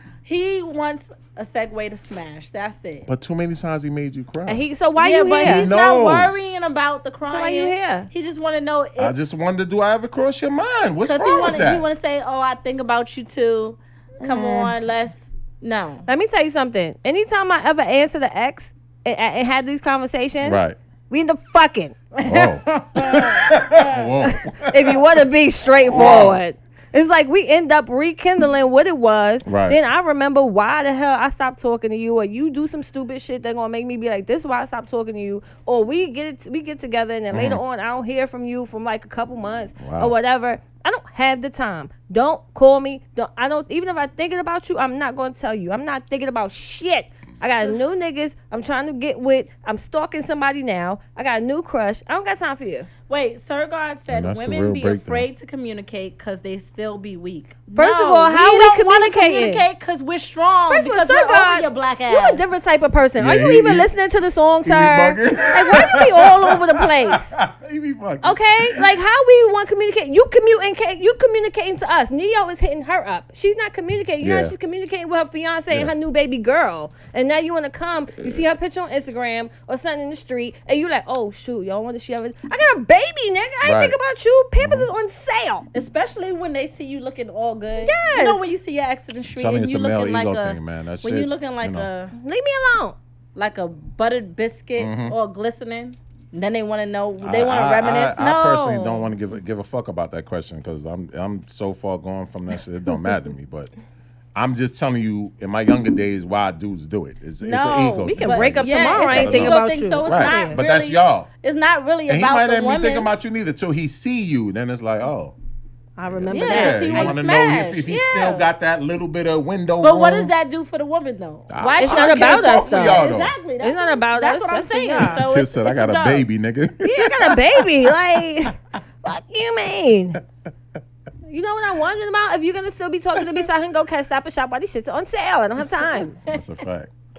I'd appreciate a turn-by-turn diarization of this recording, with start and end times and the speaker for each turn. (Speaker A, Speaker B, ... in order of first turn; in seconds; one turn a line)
Speaker A: 0.2-3.1
Speaker B: 3.0-4.6
Speaker C: 4.5-5.7
Speaker A: 5.0-9.2
Speaker B: 5.4-6.5
Speaker C: 7.2-8.1
Speaker B: 9.0-11.9
Speaker A: 11.1-16.1
Speaker B: 14.2-14.7
Speaker C: 16.1-22.1
Speaker B: 20.4-20.8
Speaker A: 22.1-24.0
Speaker B: 22.2-25.0
Speaker C: 24.2-52.9
Speaker B: 25.9-26.4
Speaker B: 29.4-29.8
Speaker B: 37.3-37.6
Speaker B: 39.8-40.1
Speaker A: 47.5-47.8
Speaker A: 53.1-62.4
Speaker B: 54.1-55.3
Speaker C: 57.7-59.6
Speaker C: 60.7-67.3
Speaker B: 63.2-63.9
Speaker B: 64.6-68.9
Speaker C: 68.2-85.7
Speaker B: 74.2-74.5
Speaker B: 83.6-84.0
Speaker B: 84.5-84.9
Speaker A: 85.7-92.1
Speaker C: 87.8-88.6
Speaker B: 89.3-91.9
Speaker C: 92.2-93.0
Speaker A: 93.3-99.1
Speaker B: 94.8-95.2
Speaker B: 97.2-103.7
Speaker B: 104.3-111.3
Speaker A: 107.4-113.1
Speaker C: 108.0-110.6
Speaker B: 112.1-115.3
Speaker C: 116.0-117.2
Speaker B: 116.0-120.3
Speaker A: 116.3-118.5
Speaker A: 119.8-126.3
Speaker B: 121.5-123.3
Speaker C: 121.8-125.2
Speaker B: 125.0-127.7
Speaker C: 126.8-130.2
Speaker C: 131.3-136.2
Speaker B: 136.2-136.9